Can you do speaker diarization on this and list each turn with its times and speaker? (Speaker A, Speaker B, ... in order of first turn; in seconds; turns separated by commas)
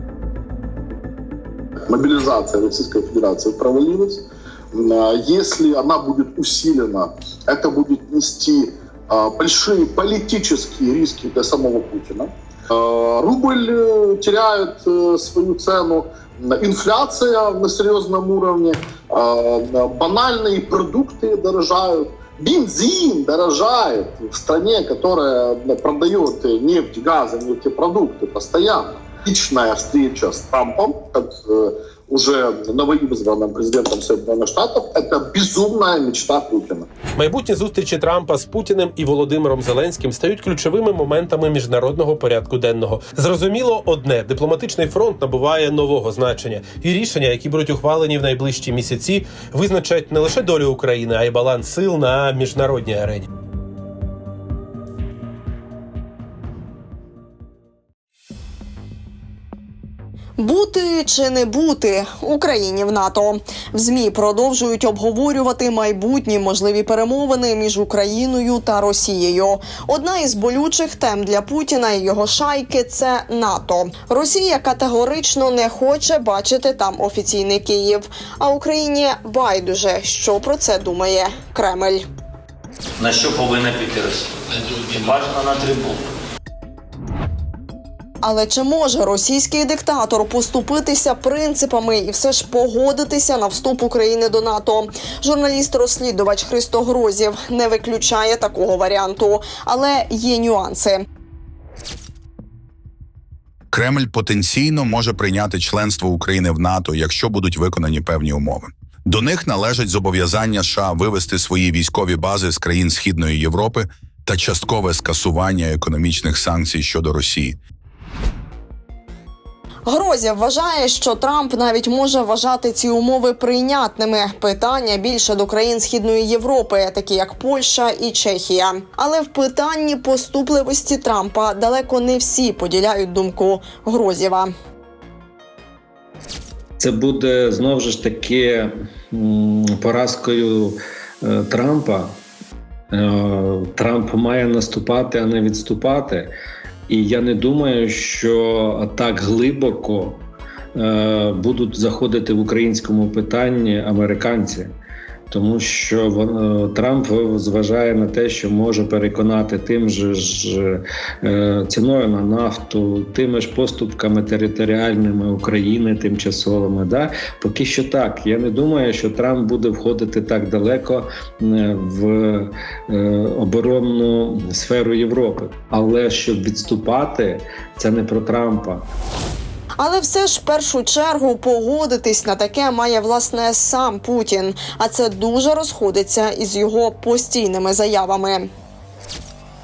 Speaker A: 1.9-36.9, Speaker B: 37.2-53.3, Speaker C: 60.4-82.0, Speaker D: 83.0-86.0, Speaker E: 83.1-83.4, Speaker E: 84.8-85.8, Speaker C: 88.2-101.0, Speaker F: 103.7-117.6, Speaker C: 119.9-134.5, Speaker E: 136.8-142.2, Speaker E: 142.9-146.3, Speaker E: 146.9-150.2, Speaker E: 150.7-154.7, Speaker E: 155.3-178.8, Speaker C: 179.8-188.5